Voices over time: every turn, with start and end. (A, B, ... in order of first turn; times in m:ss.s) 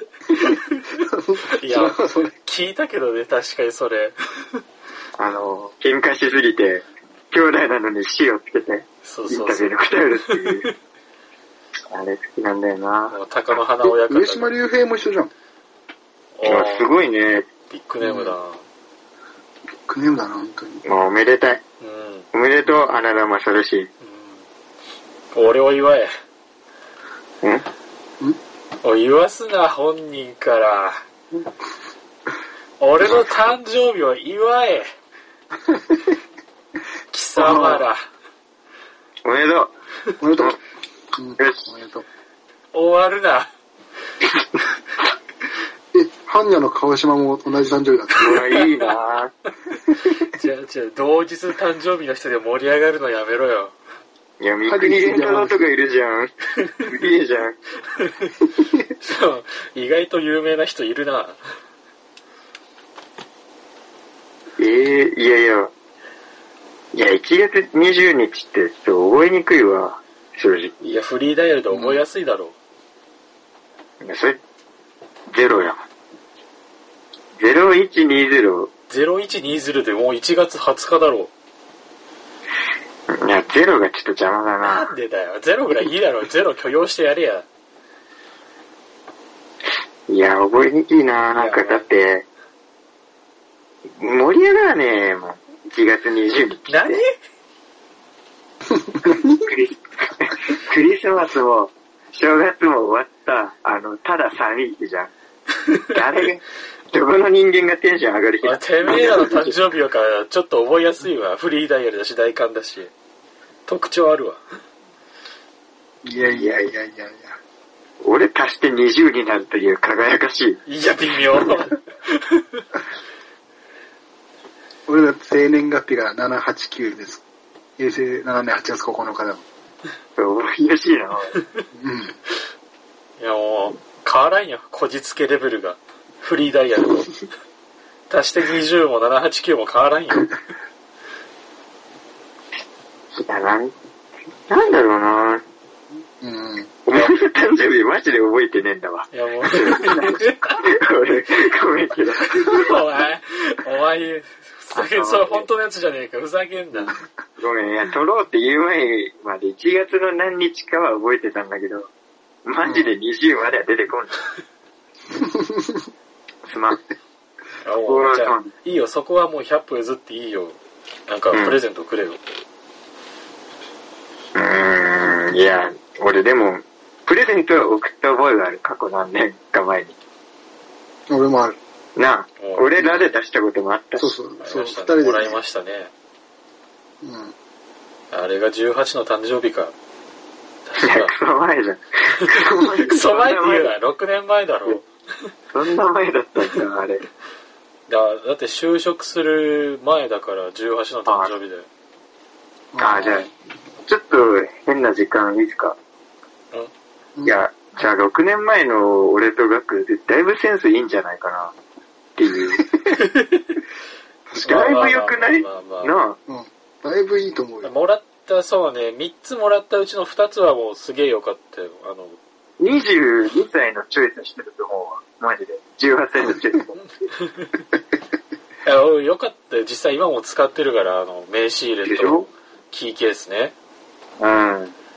0:00.4-0:01.0 A
0:01.0-0:02.3 B
0:01.6-0:04.6 A
0:05.2-0:10.7 C
0:09.0-0:09.7 A
0:10.3-0:10.7 A
0:11.9-0:13.2 C
0:13.1-0:14.6 A
0:13.8-0:15.3 B
0:16.4-0:17.0 A
0:16.4-0:17.5 C
0:17.7-0:18.6 A
0:18.0-0:18.3 B
0:19.9-0:20.8 B
0:20.8-0:21.6 C
0:21.8-0:22.3 A
0:22.3-0:23.9 C
0:24.0-0:24.4 A
0:25.3-0:26.1 A
0:28.8-0:31.0 A
0:32.8-0:34.9 A
0:35.7-0:36.1 B
0:37.1-0:38.1 A
0:37.4-0:37.9 B
0:39.2-0:39.7 C
0:40.2-0:40.6 B
0:41.2-0:42.0 B
0:41.4-0:41.7 C
0:42.7-0:43.5 A
0:45.9-0:48.5 B
0:48.2-0:49.3 C
0:48.4-0:48.6 A
0:50.2-0:53.8 A
0:54.4-0:57.6 C
0:54.7-0:55.7 B
0:59.0-1:01.4 A
1:04.6-1:05.7 C
1:06.9-1:10.7 C
1:10.8-1:12.6 A
1:11.7-1:12.0 B
1:14.0-1:14.4 C
1:15.3-1:15.8 C
1:17.4-1:18.7 C
1:18.9-1:21.3 A
1:23.1-1:24.9 C
1:24.6-1:27.5 A
1:30.1-1:32.2 C
1:31.3-1:31.9 A
1:34.0-1:37.0 C
1:36.7-1:37.2 A
1:39.0-1:39.3 B
1:39.4-1:45.1 C
1:45.8-1:49.6 C
1:48.4-1:52.9 A
1:53.7-1:54.4 A
1:56.0-1:57.4 B
1:56.3-1:56.7 C
1:58.0-2:00.6 C
2:00.7-2:02.6 A
2:04.9-2:07.2 B
2:07.8-2:09.4 B
2:10.2-2:11.4 C
2:11.7-2:12.2 B
2:13.2-2:17.1 A
2:18.1-2:20.4 A
2:23.2-2:23.7 C
2:24.5-2:25.4 C
2:26.2-2:26.8 B
2:26.9-2:32.8 C
2:29.1-2:30.6 A
2:32.4-2:37.0 A
2:34.8-2:35.5 C
2:36.9-2:41.9 C
2:42.4-2:44.2 C
2:42.6-2:42.9 B
2:45.2-2:45.8 B
2:46.5-2:46.9 C
2:47.6-2:52.2 A
2:47.9-2:48.5 C
2:51.3-2:51.6 C
2:54.4-3:00.0 C
3:01.1-3:01.6 B
3:02.0-3:04.1 C
3:02.4-3:02.7 A
3:02.8-3:03.0 B
3:04.0-3:05.4 B
3:04.4-3:05.9 A
3:07.0-3:07.3 B
3:08.1-3:09.7 A
3:10.7-3:11.1 A
3:10.8-3:13.7 C
3:12.8-3:15.3 A
3:15.5-3:17.0 C
3:17.9-3:21.7 A
3:21.1-3:21.3 C
3:22.7-3:23.3 B
3:22.8-3:23.3 C
3:23.9-3:25.8 C
3:27.2-3:31.6 C
3:32.2-3:32.7 C
3:34.3-3:34.7 B
3:34.4-3:36.0 A
3:34.4-3:36.2 C
3:36.3-3:37.7 B
3:37.6-3:42.2 A
3:42.6-3:46.8 C
3:47.2-3:47.5 A
3:48.6-3:53.5 A
3:51.8-3:52.3 C
3:54.2-3:54.8 C